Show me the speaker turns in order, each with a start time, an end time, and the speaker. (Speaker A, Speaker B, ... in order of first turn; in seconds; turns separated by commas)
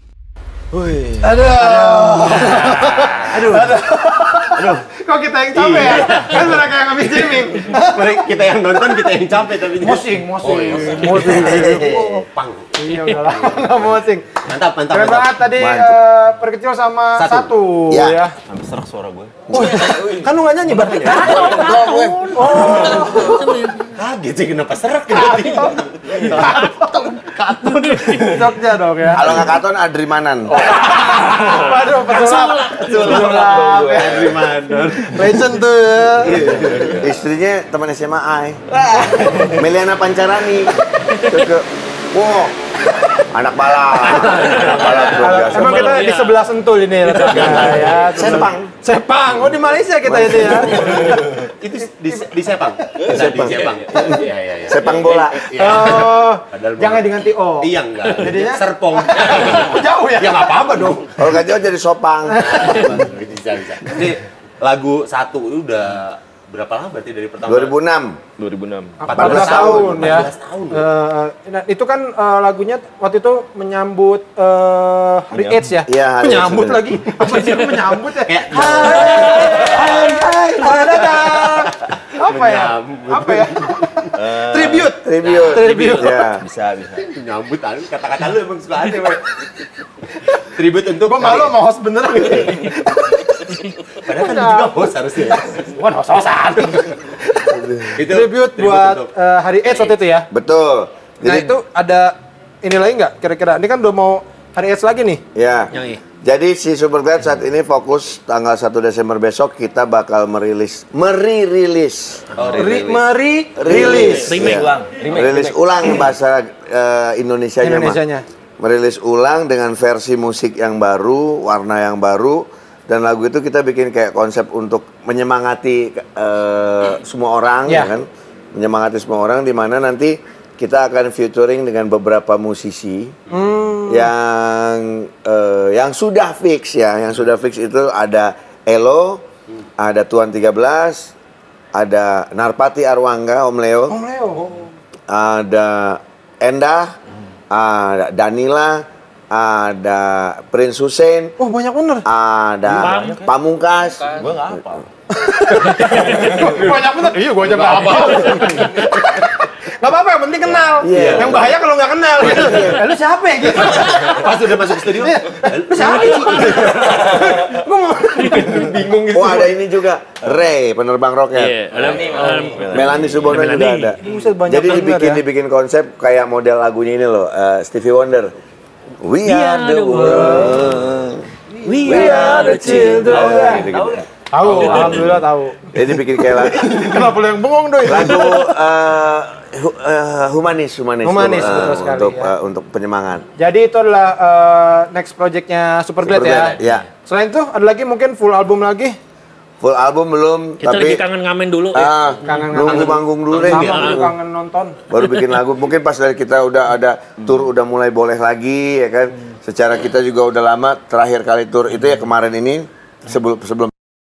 Speaker A: 0.8-1.4, Speaker B: 1.2-3.8, Speaker C: 1.2-9.0, Speaker A: 1.9-3.1, Speaker B: 4.5-4.9, Speaker B: 5.5-6.6, Speaker B: 7.3-13.9, Speaker C: 9.8-18.3, Speaker D: 11.3-12.0, Speaker B: 14.4-15.4, Speaker D: 15.6-16.0, Speaker B: 17.1-17.5, Speaker D: 17.9-18.2, Speaker A: 18.5-20.2, Speaker D: 19.5-19.9, Speaker C: 19.5-21.7, Speaker E: 21.1-23.9, Speaker D: 21.1-22.7, Speaker C: 22.3-23.5, Speaker B: 22.4-23.4, Speaker B: 23.9-28.3, Speaker C: 25.1-26.7, Speaker E: 26.4-28.4, Speaker C: 28.2-29.3, Speaker D: 29.1-30.9, Speaker C: 30.6-34.4, Speaker E: 30.7-33.4, Speaker A: 32.9-35.2, Speaker B: 33.0-35.2, Speaker C: 34.9-36.3, Speaker A: 36.1-37.2, Speaker B: 36.4-36.7, Speaker D: 36.5-38.6, Speaker A: 38.8-39.6, Speaker D: 39.2-42.6, Speaker E: 41.1-41.4, Speaker D: 43.1-46.0, Speaker E: 44.0-46.4, Speaker B: 44.4-44.7, Speaker C: 45.1-51.3, Speaker B: 45.6-46.1, Speaker B: 47.0-48.3, Speaker D: 48.1-48.7, Speaker D: 50.0-50.7, Speaker A: 50.9-51.2, Speaker B: 51.6-61.3, Speaker D: 53.1-54.1, Speaker A: 53.1-54.2, Speaker D: 54.7-55.4, Speaker C: 55.5-60.9, Speaker D: 61.2-62.5, Speaker C: 62.3-63.0, Speaker B: 62.4-67.8, Speaker D: 67.4-68.2, Speaker A: 68.4-69.6, Speaker C: 69.0-86.2, Speaker B: 69.0-70.9, Speaker D: 69.1-70.1, Speaker A: 75.3-75.7, Speaker D: 75.9-77.0, Speaker E: 77.3-77.8, Speaker B: 78.2-84.7, Speaker E: 78.9-80.2, Speaker A: 84.1-85.0, Speaker D: 85.0-86.4, Speaker B: 85.2-86.1, Speaker A: 86.4-87.1, Speaker B: 87.0-89.3, Speaker B: 90.4-91.5, Speaker C: 91.0-93.1, Speaker B: 92.3-92.7, Speaker B: 94.0-95.7, Speaker C: 94.0-94.8, Speaker C: 95.5-100.3, Speaker D: 97.6-97.9, Speaker B: 97.9-99.1, Speaker B: 99.7-100.0, Speaker D: 100.3-101.5, Speaker C: 101.2-105.2, Speaker D: 105.3-112.3, Speaker E: 105.7-106.0, Speaker B: 112.4-113.0, Speaker A: 112.4-112.9, Speaker C: 112.5-114.3, Speaker D: 113.5-118.0, Speaker A: 113.6-116.0, Speaker E: 114.3-114.8, Speaker C: 117.6-118.3, Speaker D: 118.6-133.2, Speaker C: 133.3-134.1, Speaker D: 133.9-139.3, Speaker D: 139.8-141.1, Speaker D: 141.7-144.0, Speaker C: 143.9-144.8, Speaker D: 145.1-146.9, Speaker D: 147.5-151.4, Speaker C: 151.4-152.1, Speaker D: 152.1-154.8, Speaker E: 152.7-153.2, Speaker A: 152.8-153.3, Speaker A: 154.0-154.8, Speaker C: 155.3-168.8, Speaker E: 155.8-156.3, Speaker A: 156.0-156.6, Speaker B: 157.7-158.3, Speaker D: 160.8-161.5, Speaker B: 160.8-161.4, Speaker D: 162.2-162.8, Speaker B: 163.5-167.2, Speaker A: 166.3-167.4, Speaker A: 168.3-169.6, Speaker B: 168.5-169.4, Speaker D: 169.1-172.1, Speaker E: 171.3-174.1, Speaker A: 171.7-173.3, Speaker B: 171.8-172.2, Speaker D: 172.7-178.3, Speaker C: 174.0-175.2, Speaker D: 179.0-181.3, Speaker E: 179.2-180.7, Speaker C: 180.0-180.6, Speaker A: 181.5-185.1, Speaker E: 181.6-183.1, Speaker D: 181.8-185.0, Speaker C: 181.8-183.7, Speaker C: 184.3-185.7, Speaker B: 184.5-184.8, Speaker D: 185.7-186.8, Speaker A: 186.5-187.0, Speaker C: 186.6-188.4, Speaker D: 187.8-193.3, Speaker C: 191.0-192.3, Speaker C: 193.4-199.0, Speaker D: 196.1-196.9, Speaker B: 196.1-196.8, Speaker D: 199.6-201.0, Speaker E: 200.6-202.4, Speaker D: 201.7-204.1, Speaker C: 202.2-204.8, Speaker B: 202.7-203.7, Speaker E: 203.6-204.0, Speaker D: 204.9-213.7